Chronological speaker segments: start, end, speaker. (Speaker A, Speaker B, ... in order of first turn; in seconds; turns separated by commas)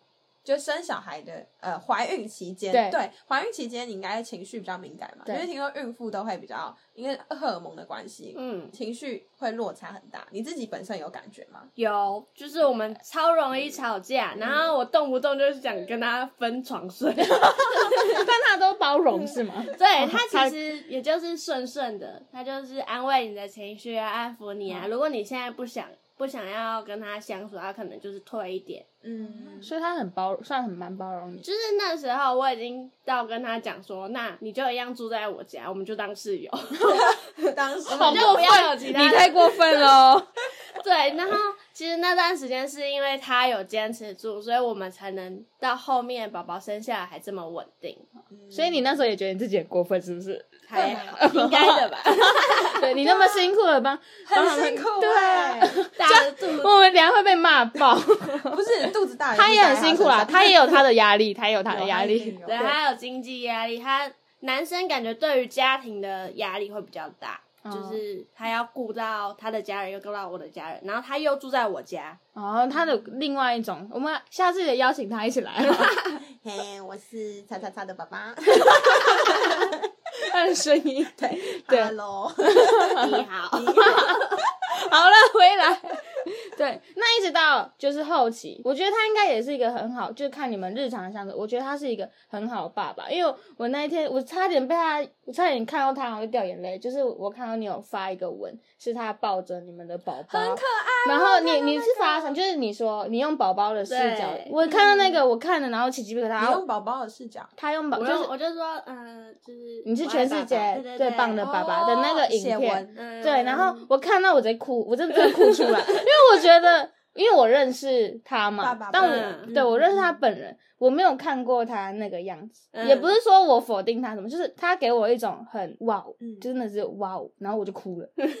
Speaker A: 0.4-11.7, Speaker B: 2.7-3.0, Speaker C: 8.3-8.7, Speaker C: 11.8-18.2, Speaker A: 14.4-14.7, Speaker B: 18.0-20.6, Speaker C: 19.7-28.9, Speaker A: 29.0-29.7, Speaker B: 29.2-31.4, Speaker C: 31.4-37.3, Speaker A: 36.9-38.6, Speaker C: 37.9-39.8, Speaker B: 37.9-40.3, Speaker C: 40.7-48.0, Speaker A: 48.3-48.8, Speaker B: 48.5-58.6, Speaker C: 50.7-52.9, Speaker A: 50.8-51.0, Speaker A: 53.1-53.4, Speaker A: 54.2-55.8, Speaker C: 56.0-56.7, Speaker A: 58.4-60.8, Speaker B: 59.3-62.8, Speaker A: 61.7-62.7, Speaker C: 62.5-72.2, Speaker B: 67.6-68.0, Speaker B: 72.3-76.0, Speaker A: 76.3-79.9, Speaker B: 78.6-79.6, Speaker B: 80.2-83.2, Speaker A: 81.2-84.4, Speaker C: 83.0-84.4, Speaker B: 83.8-84.2, Speaker C: 84.9-85.8, Speaker B: 85.5-85.7, Speaker B: 86.4-106.6, Speaker C: 100.3-102.3, Speaker C: 103.9-104.6, Speaker A: 106.4-107.5, Speaker B: 107.6-108.3, Speaker C: 108.0-112.2, Speaker B: 109.8-128.1, Speaker A: 111.4-113.6, Speaker C: 112.9-113.8, Speaker A: 118.6-120.1, Speaker C: 119.0-119.5, Speaker C: 122.7-123.1, Speaker A: 126.2-126.5